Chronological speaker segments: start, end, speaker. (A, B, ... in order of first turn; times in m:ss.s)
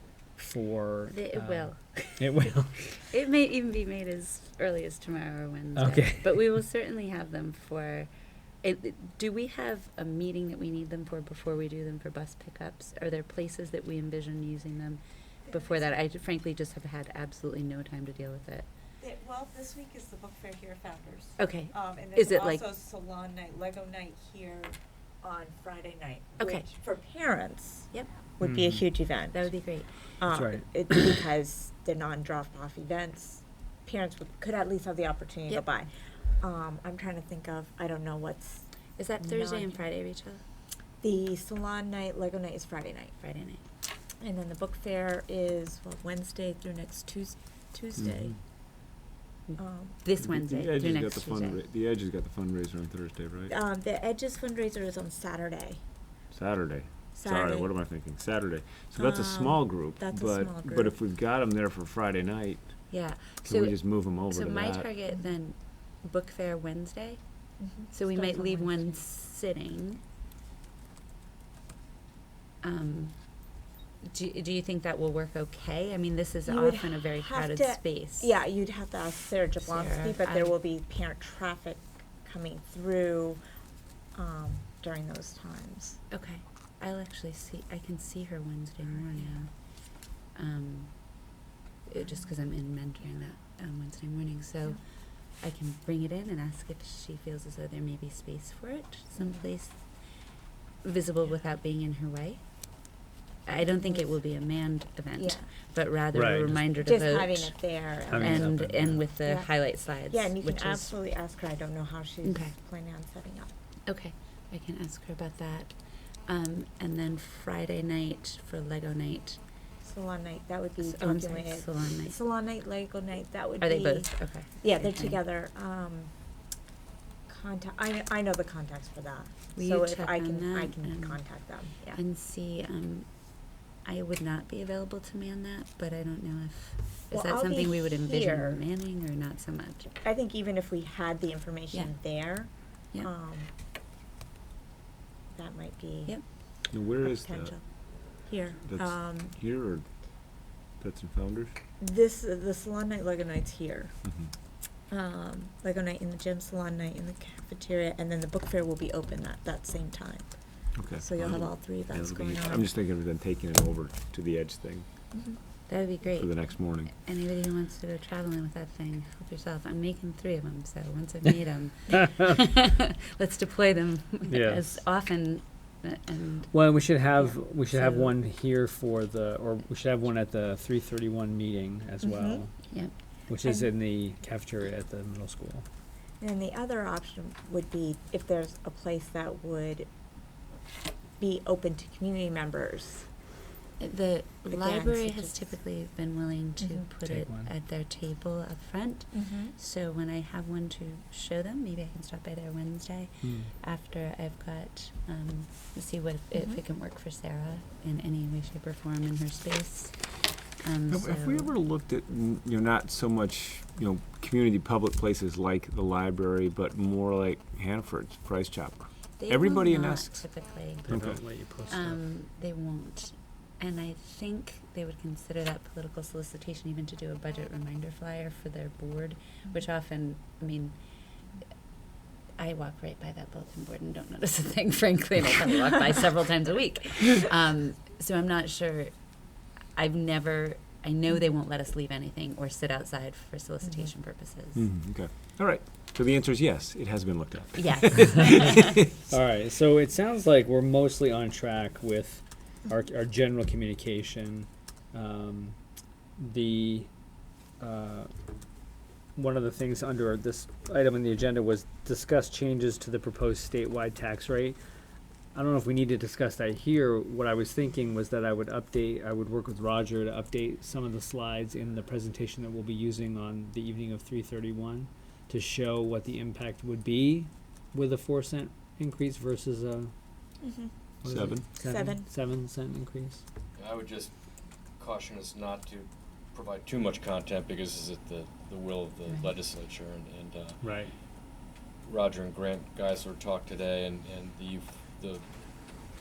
0:00.4-0:03.0 A
0:01.1-0:02.2 B
0:03.0-0:08.1 B
0:05.8-0:06.5 A
0:08.6-0:18.6 B
0:15.5-0:15.9 C
0:19.0-0:29.5 C
0:21.4-0:22.6 B
0:26.4-0:26.6 B
0:28.4-0:28.8 A
0:29.3-0:29.9 B
0:30.2-0:38.7 C
0:30.3-0:31.0 A
0:39.0-0:40.4 B
0:39.2-0:39.8 C
0:41.0-0:43.1 C
0:43.2-0:43.6 B
0:44.2-0:48.4 C
0:48.0-0:48.4 D
0:49.5-0:51.6 B
0:49.6-0:50.0 C
0:50.2-0:53.5 D
0:53.5-0:55.8 C
0:56.3-1:04.9 D
0:57.1-0:57.7 C
0:59.0-1:01.0 C
1:02.9-1:07.2 B
1:07.6-1:09.0 C
1:07.9-1:10.0 B
1:12.6-1:13.2 B
1:14.0-1:18.3 B
1:16.4-1:23.4 C
1:19.6-1:20.5 B
1:24.1-1:26.0 C
1:26.1-1:31.4 B
1:31.9-1:39.8 B
1:40.8-1:50.9 B
1:43.5-1:44.2 C
1:45.2-1:45.5 C
1:46.1-1:46.6 A
1:46.7-1:53.5 C
1:48.1-1:49.0 A
1:52.2-1:52.5 B
1:53.9-1:55.8 B
1:56.3-1:59.4 B
1:59.8-2:06.1 C
2:00.8-2:02.2 B
2:03.6-2:05.2 B
2:07.3-2:12.0 C
2:09.5-2:19.9 B
2:17.1-2:18.6 C
2:20.0-2:23.5 C
2:25.3-2:26.2 C
2:26.7-2:27.5 D
2:27.0-2:27.6 C
2:28.2-2:29.3 C
2:28.6-2:31.5 D
2:31.8-2:34.0 C
2:34.9-2:42.6 C
2:40.8-2:44.9 D
2:45.1-2:45.4 C
2:45.7-2:58.1 B
2:46.1-2:46.9 D
2:54.3-2:54.8 A
2:56.5-3:02.6 A
3:02.0-3:02.4 C
3:03.3-3:05.6 A
3:03.4-3:03.7 C
3:06.2-3:09.9 C
3:11.2-3:13.1 C
3:13.8-3:30.0 B
3:14.5-3:15.6 C
3:16.6-3:16.9 C
3:17.0-3:17.5 A
3:19.1-3:19.5 C
3:23.2-3:23.5 A
3:30.6-3:31.5 B
3:30.9-3:40.3 D
3:39.2-3:41.0 B
3:40.8-3:42.0 A
3:40.9-3:41.2 D
3:41.7-3:50.8 B
3:52.4-4:04.6 B
4:03.6-4:03.9 C
4:04.5-4:08.6 D
4:07.6-4:08.9 B
4:09.1-4:15.6 A
4:16.2-4:16.9 A
4:17.6-4:18.1 A
4:19.2-4:24.6 A
4:25.3-4:39.9 A
4:40.4-4:40.7 C
4:41.0-4:41.4 D
4:41.0-4:43.2 A
4:41.6-4:42.0 C
4:43.6-4:44.1 E
4:44.8-4:50.6 E
4:50.6-4:50.9 A
4:51.8-4:55.2 E